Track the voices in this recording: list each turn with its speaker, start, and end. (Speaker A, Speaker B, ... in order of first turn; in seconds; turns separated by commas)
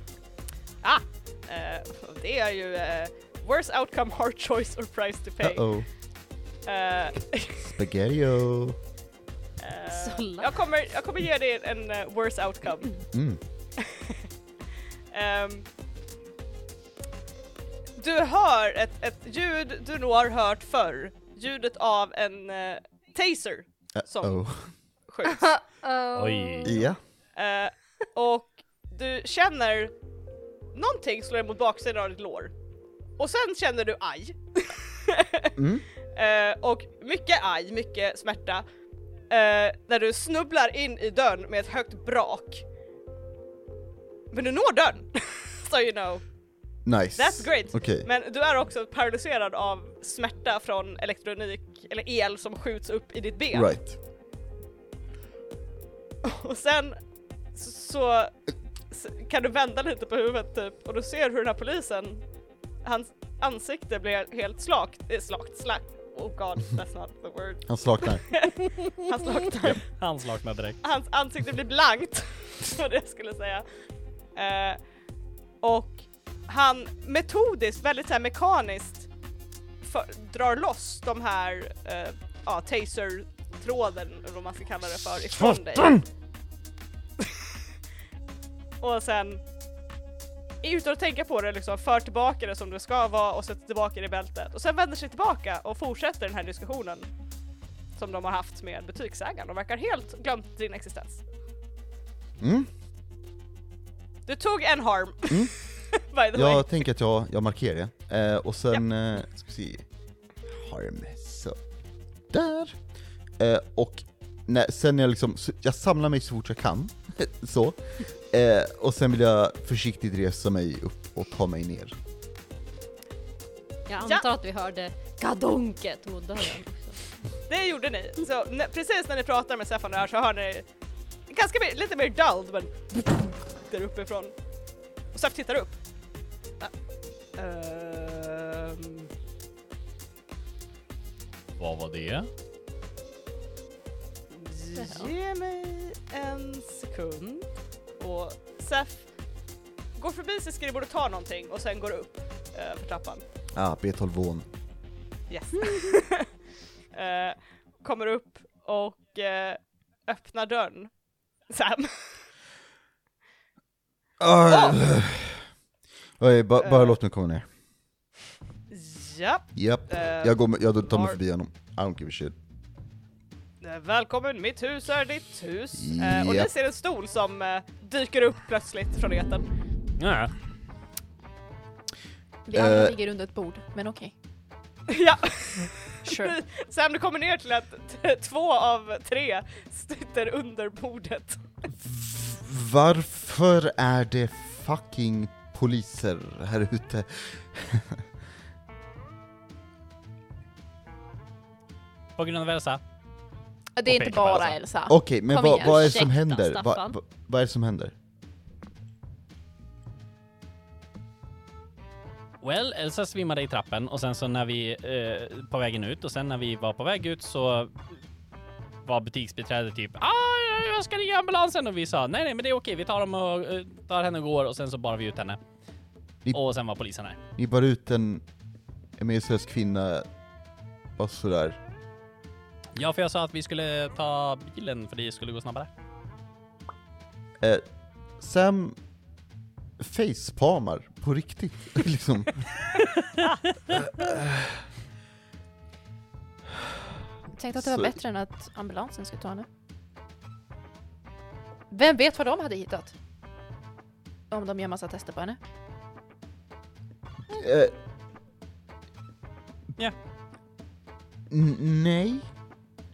Speaker A: 0.8-5.7, Speaker B: 5.4-5.9, Speaker A: 6.7-7.7, Speaker B: 7.6-8.8, Speaker A: 9.6-13.1, Speaker C: 9.9-10.6, Speaker B: 13.1-13.4, Speaker A: 13.8-14.3, Speaker A: 15.1-15.7, Speaker A: 18.0-24.4, Speaker B: 24.0-24.7, Speaker A: 25.1-25.5, Speaker C: 25.2-26.9, Speaker D: 26.2-26.8, Speaker B: 26.6-27.0, Speaker A: 27.4-29.9, Speaker A: 30.7-32.5, Speaker A: 33.2-35.5, Speaker B: 35.6-35.9, Speaker A: 36.1-38.6, Speaker A: 39.3-42.6, Speaker A: 44.3-46.2, Speaker B: 46.9-48.1, Speaker A: 47.2-53.7, Speaker B: 53.5-54.0, Speaker A: 56.2-57.0, Speaker A: 57.5-58.3, Speaker A: 58.9-62.2, Speaker A: 62.8-69.8, Speaker B: 67.7-68.2, Speaker D: 69.8-70.8, Speaker A: 70.8-73.7, Speaker A: 74.3-74.8, Speaker A: 75.6-79.1, Speaker A: 79.8-86.0, Speaker B: 85.5-86.0, Speaker A: 87.2-87.5, Speaker A: 88.8-89.4, Speaker A: 90.6-97.1, Speaker A: 98.0-101.2, Speaker B: 102.4-102.7, Speaker A: 104.3-106.8, Speaker B: 106.3-109.8, Speaker B: 110.5-111.6, Speaker B: 112.3-112.8, Speaker B: 113.4-117.8, Speaker B: 118.3-122.0, Speaker C: 123.9-127.0, Speaker A: 124.0-124.3, Speaker A: 127.5-130.7, Speaker A: 131.3-134.3, Speaker A: 135.1-135.8, Speaker A: 137.4-139.1, Speaker D: 141.6-142.3, Speaker A: 144.3-147.5, Speaker C: 144.8-145.1, Speaker A: 148.0-149.1, Speaker A: 150.0-153.2, Speaker B: 153.5-154.5, Speaker A: 155.3-156.3, Speaker A: 156.9-160.9, Speaker A: 161.5-162.2, Speaker B: 164.2-165.4, Speaker A: 164.5-164.8, Speaker B: 166.2-167.4, Speaker A: 166.6-167.0, Speaker A: 168.7-171.2, Speaker B: 169.6-172.3, Speaker A: 173.6-179.5, Speaker B: 175.8-176.5, Speaker D: 180.0-180.3, Speaker E: 182.5-184.1, Speaker B: 182.5-183.0, Speaker A: 184.9-191.4, Speaker E: 186.1-186.3, Speaker B: 191.8-198.0, Speaker D: 202.2-202.8, Speaker E: 203.8-206.1, Speaker D: 203.9-204.6, Speaker B: 204.9-207.9, Speaker C: 205.5-207.0, Speaker D: 212.4-217.8, Speaker D: 218.8-225.4, Speaker D: 226.3-227.2, Speaker B: 227.4-228.2, Speaker B: 229.0-230.1, Speaker B: 231.0-231.6, Speaker D: 232.8-235.7, Speaker B: 238.2-238.8, Speaker B: 239.8-242.5, Speaker B: 243.8-244.5, Speaker E: 247.3-249.5, Speaker B: 247.6-248.0, Speaker E: 251.7-252.9, Speaker E: 254.3-255.4, Speaker B: 257.3-257.7, Speaker B: 261.3-262.3